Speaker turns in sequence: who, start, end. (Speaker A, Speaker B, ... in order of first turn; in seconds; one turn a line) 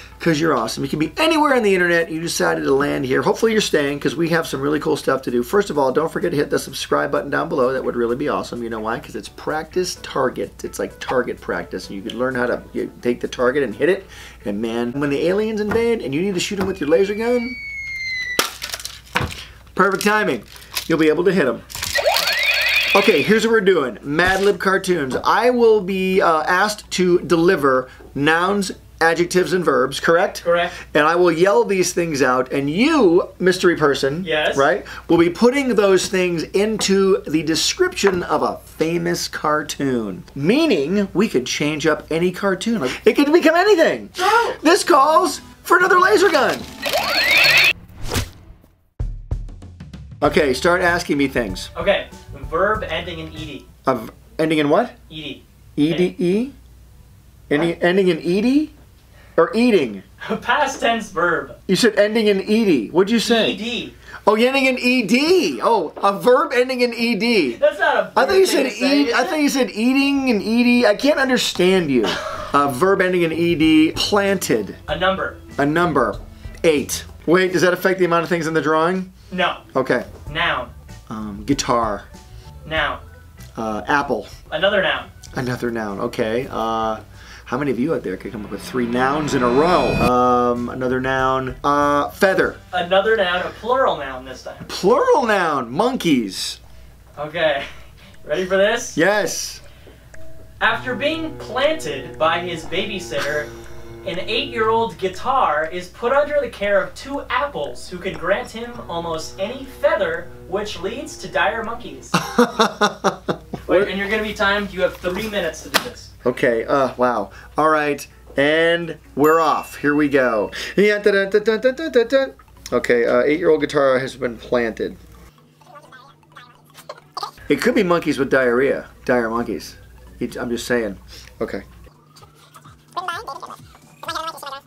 Speaker A: 0.2-17.6
Speaker A: 19.7-21.6
Speaker A: 22.9-46.7
Speaker B: 30.4-30.8
Speaker B: 34.2-34.6
Speaker B: 44.1-44.6
Speaker A: 50.2-51.7
Speaker B: 51.7-53.6
Speaker A: 53.9-54.9
Speaker B: 55.1-56.1
Speaker A: 55.8-56.5
Speaker A: 57.5-58.7
Speaker A: 59.4-60.0
Speaker B: 60.2-61.6
Speaker A: 61.7-63.6
Speaker B: 63.2-63.9
Speaker A: 64.2-67.6
Speaker B: 67.5-69.4
Speaker A: 68.1-74.8
Speaker B: 74.9-75.4
Speaker A: 75.6-79.1
Speaker B: 79.3-79.6
Speaker A: 79.7-80.1
Speaker B: 80.2-80.7
Speaker A: 81.1-82.0
Speaker B: 82.6-83.0
Speaker A: 83.6-84.3
Speaker B: 84.5-85.1
Speaker A: 85.3-92.6
Speaker B: 92.7-94.7
Speaker A: 94.7-96.6
Speaker B: 97.2-97.7
Speaker B: 98.2-99.0
Speaker A: 98.9-99.6
Speaker B: 100.6-103.5
Speaker B: 104.0-112.2
Speaker A: 112.1-113.9
Speaker B: 113.7-116.1
Speaker A: 116.2-125.0
Speaker A: 127.5-131.6